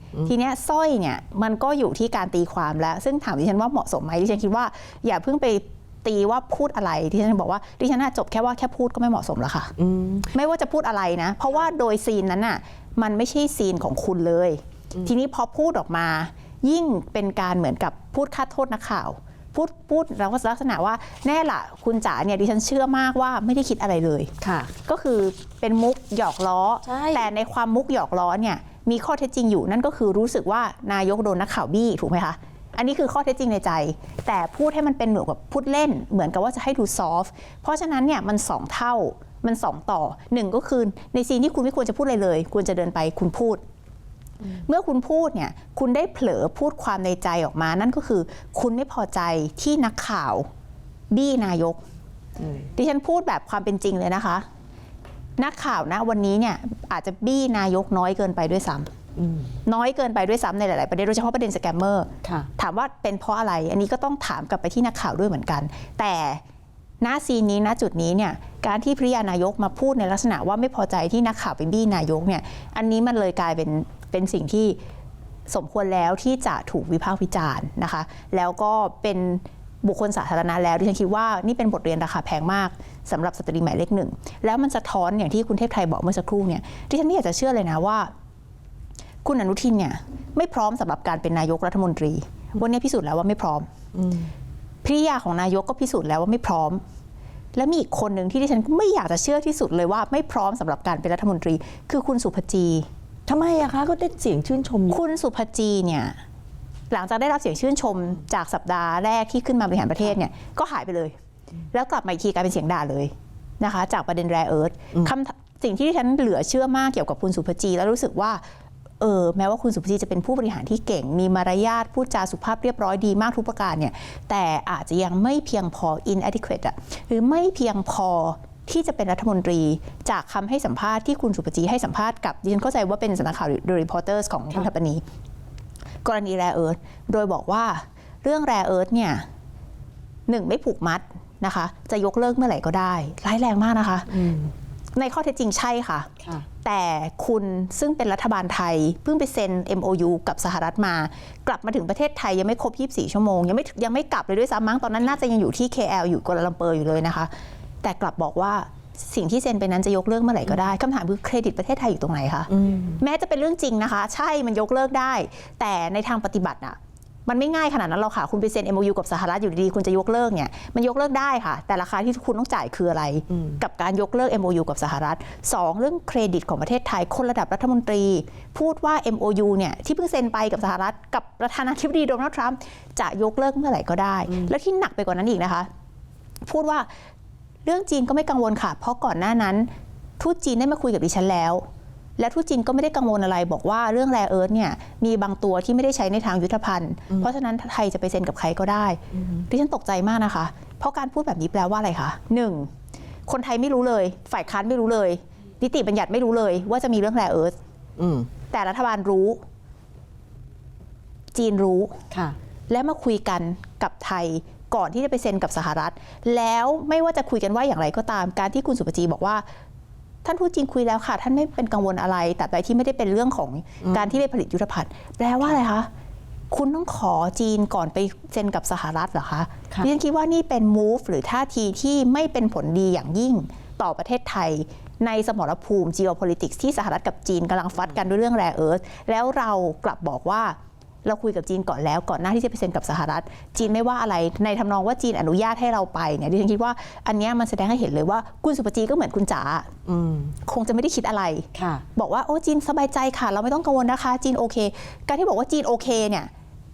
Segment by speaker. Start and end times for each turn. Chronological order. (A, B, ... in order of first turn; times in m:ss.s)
0:00.3-0:09.7 A
0:09.8-0:10.3 B
0:10.3-0:24.3 A
0:24.4-0:24.7 B
0:24.9-0:43.6 A
0:26.8-0:27.3 B
0:44.6-0:50.5 A
0:51.1-0:51.8 A
0:52.4-0:52.6 B
0:52.8-0:54.4 A
0:55.4-0:58.9 A
0:59.2-0:59.5 B
0:59.6-1:06.4 A
1:07.0-1:14.8 A
1:15.5-1:28.1 A
1:29.2-1:33.7 A
1:33.9-1:34.3 B
1:34.8-1:36.8 A
1:37.6-1:42.9 A
1:43.3-1:45.0 B
1:44.9-1:46.2 A
1:46.9-1:51.1 A
1:51.7-1:58.4 A
1:59.0-2:15.0 A
2:16.0-2:19.3 A
2:20.3-2:24.2 A
2:24.1-2:24.5 B
2:24.9-2:37.3 A
2:37.8-3:05.7 A
2:42.5-2:43.0 B
2:53.3-2:53.6 B
3:04.3-3:04.5 B
3:06.4-3:06.9 A
3:07.6-3:11.6 A
3:12.2-3:22.7 A
3:19.1-3:19.4 B
3:23.3-3:27.6 A
3:28.0-3:28.3 B
3:28.5-3:29.4 A
3:31.3-3:32.0 A
3:32.7-3:39.4 A
3:40.2-3:45.9 A
3:43.8-3:44.1 B
3:46.5-4:09.7 A
4:09.9-4:10.4 B
4:10.4-4:16.3 A
4:11.6-4:11.8 B